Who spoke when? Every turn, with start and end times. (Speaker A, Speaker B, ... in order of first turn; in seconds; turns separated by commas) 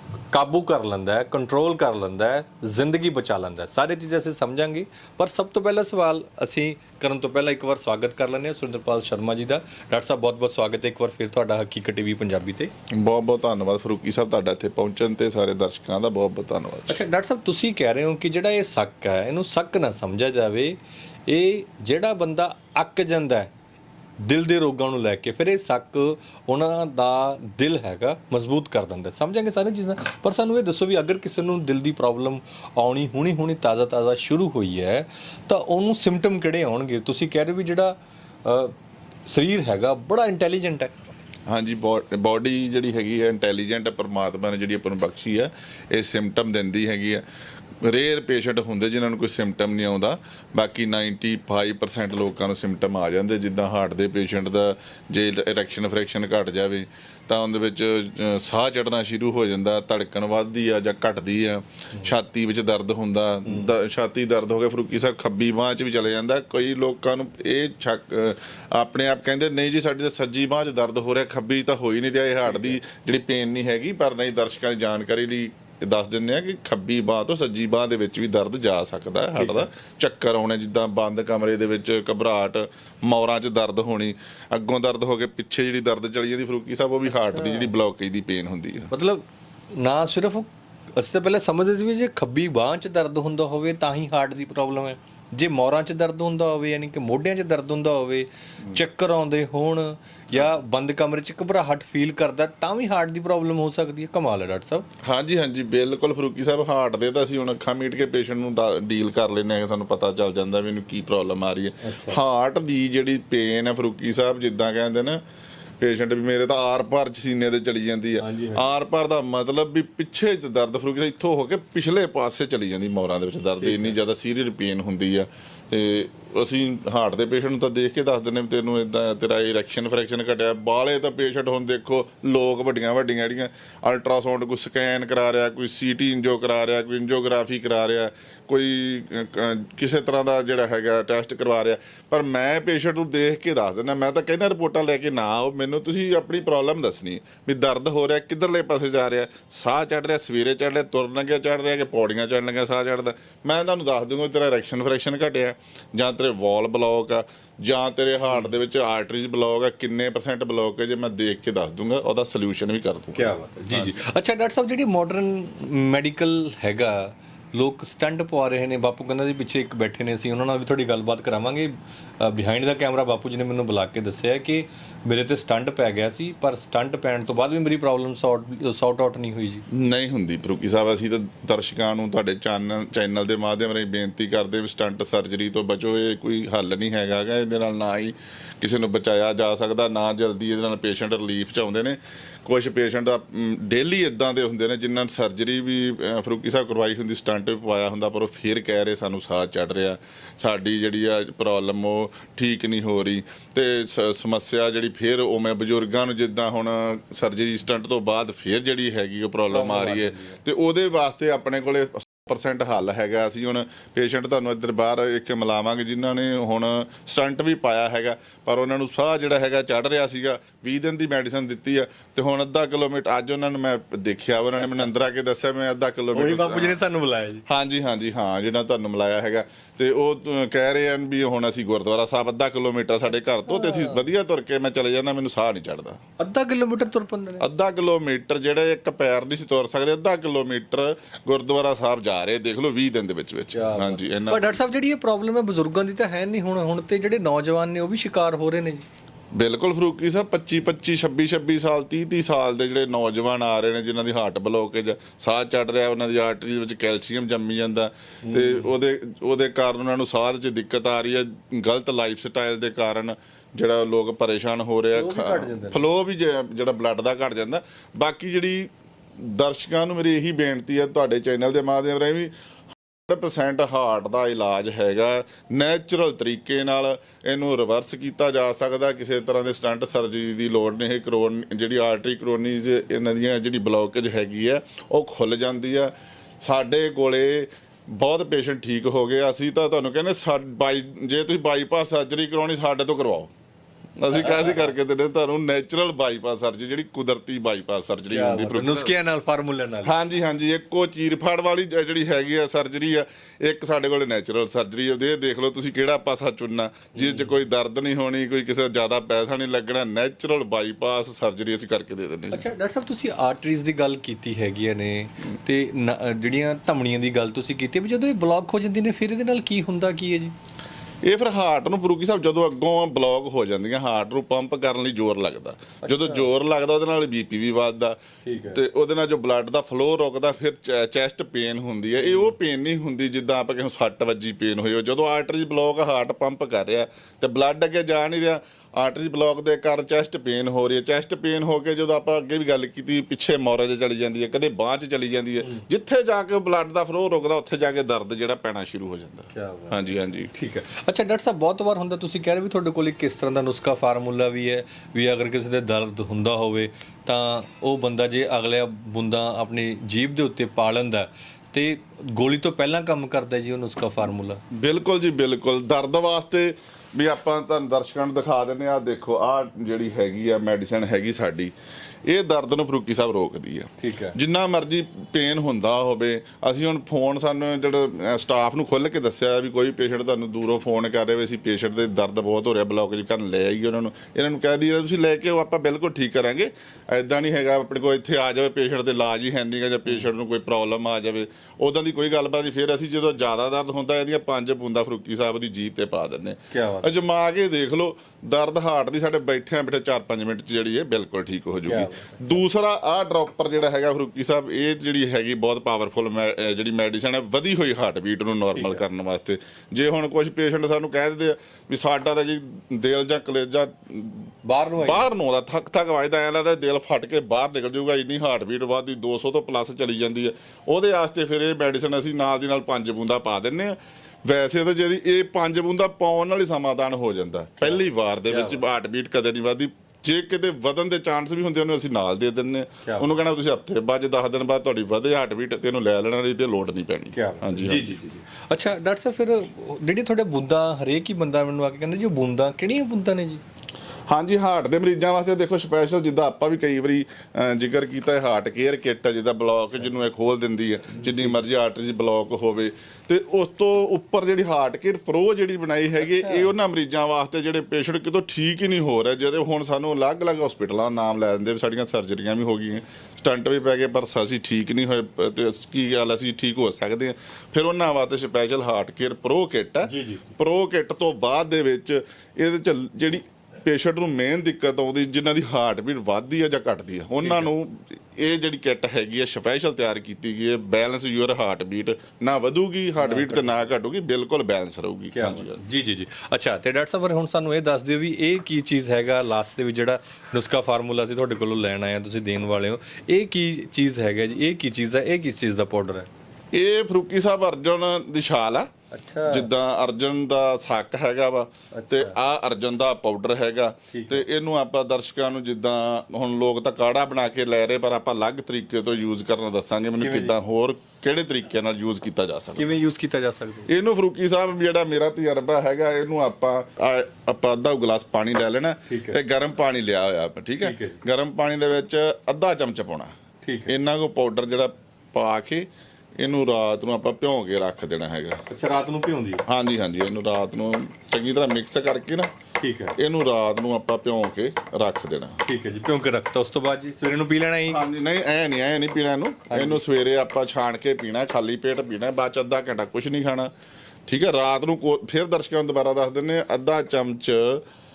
Speaker A: 0.3-12.7, Speaker B: 12.9-17.0, Speaker A: 16.9-23.5, Speaker A: 24.2-38.7, Speaker A: 39.2-40.9, Speaker B: 41.5-47.2, Speaker B: 47.8-88.9, Speaker A: 72.5-72.8, Speaker A: 79.3-79.7, Speaker A: 87.1-87.7, Speaker A: 88.9-104.9, Speaker B: 105.0-115.2, Speaker A: 111.8-112.2, Speaker B: 115.8-163.9, Speaker A: 118.2-118.6, Speaker A: 123.6-124.0, Speaker A: 163.1-179.6, Speaker B: 179.7-226.8, Speaker A: 209.5-210.4, Speaker A: 226.1-227.4, Speaker B: 227.5-236.0, Speaker A: 233.5-234.0, Speaker A: 236.2-237.4, Speaker B: 237.4-244.6, Speaker A: 243.5-248.8, Speaker B: 249.3-268.7, Speaker A: 258.2-258.7, Speaker A: 264.9-265.8, Speaker B: 269.2-272.3, Speaker B: 273.1-293.3, Speaker B: 294.0-298.9, Speaker A: 294.2-294.6, Speaker A: 298.1-299.9, Speaker B: 299.8-312.4, Speaker A: 306.9-307.3, Speaker A: 312.3-320.3, Speaker B: 321.0-328.0, Speaker A: 325.8-326.3, Speaker A: 328.2-328.6, Speaker B: 328.5-350.3, Speaker A: 332.1-332.3, Speaker A: 349.3-364.4, Speaker B: 364.5-371.5, Speaker B: 372.1-414.3, Speaker A: 373.8-374.1, Speaker A: 396.5-396.9, Speaker A: 401.6-402.4, Speaker A: 408.6-408.8, Speaker A: 414.4-415.1, Speaker B: 414.8-437.9, Speaker A: 427.6-428.6, Speaker A: 437.1-443.4, Speaker B: 444.1-485.6, Speaker A: 456.0-456.5, Speaker A: 469.9-470.3, Speaker A: 477.2-477.5, Speaker A: 483.0-483.5, Speaker A: 485.1-496.1, Speaker B: 496.5-498.7, Speaker A: 498.9-499.5, Speaker B: 499.3-512.7, Speaker A: 501.7-502.1, Speaker A: 503.9-504.2, Speaker A: 510.0-510.3, Speaker A: 512.5-513.7, Speaker B: 513.7-523.1, Speaker A: 518.9-519.2, Speaker A: 520.6-521.0, Speaker A: 523.4-523.7, Speaker B: 523.7-525.7, Speaker B: 526.2-528.4, Speaker A: 528.5-529.4, Speaker B: 529.5-532.3, Speaker A: 532.6-533.0, Speaker B: 533.0-535.4, Speaker A: 535.4-537.8, Speaker B: 537.7-543.5, Speaker A: 539.5-539.8, Speaker B: 544.1-547.6